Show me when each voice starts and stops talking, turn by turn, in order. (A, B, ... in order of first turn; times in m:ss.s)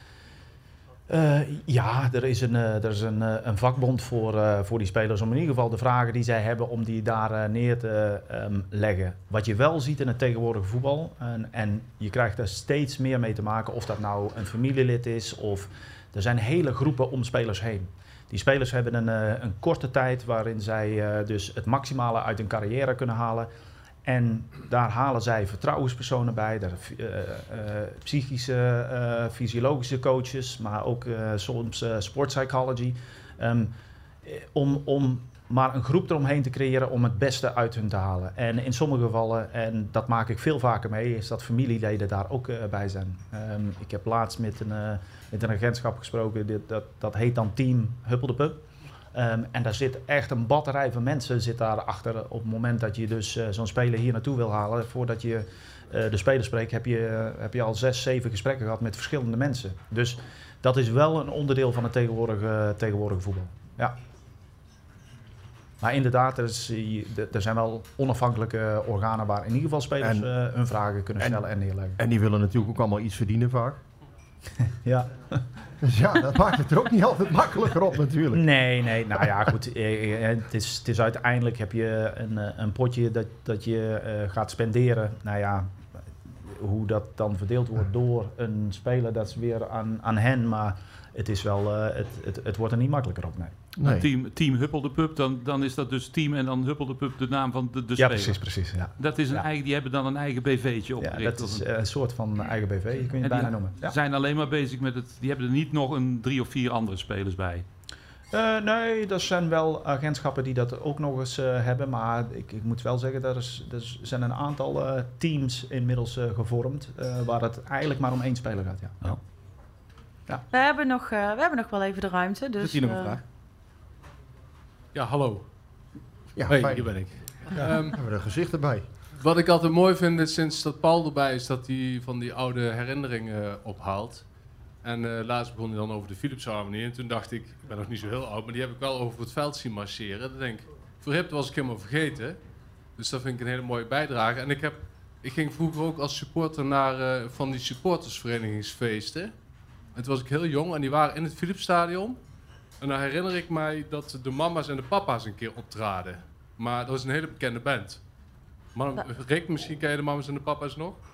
0:01.1-0:23.5 A
0:24.0-0:33.7 A
0:34.2-0:48.6 A
0:49.1-1:04.0 A
1:05.8-1:12.0 A
1:10.0-1:10.3 B
1:12.0-1:13.8 B
1:14.6-1:15.2 A
1:15.8-1:18.4 B
1:18.3-1:25.7 A
1:26.3-1:33.6 A
1:33.8-1:34.0 B
1:33.8-1:38.4 C
1:38.0-1:39.4 A
1:39.0-1:41.6 C
1:41.0-1:44.0 A
1:43.2-1:47.6 C
1:48.3-1:59.2 A
2:00.5-2:03.2 D
2:02.7-2:03.2 E
2:04.9-2:05.5 E
2:06.3-2:08.9 B
2:06.4-2:08.0 E
2:09.2-2:14.3 E
2:14.8-2:22.4 E
2:23.0-2:29.3 E
2:29.9-2:32.2 E
2:32.8-2:38.0 E
2:38.7-2:41.0 E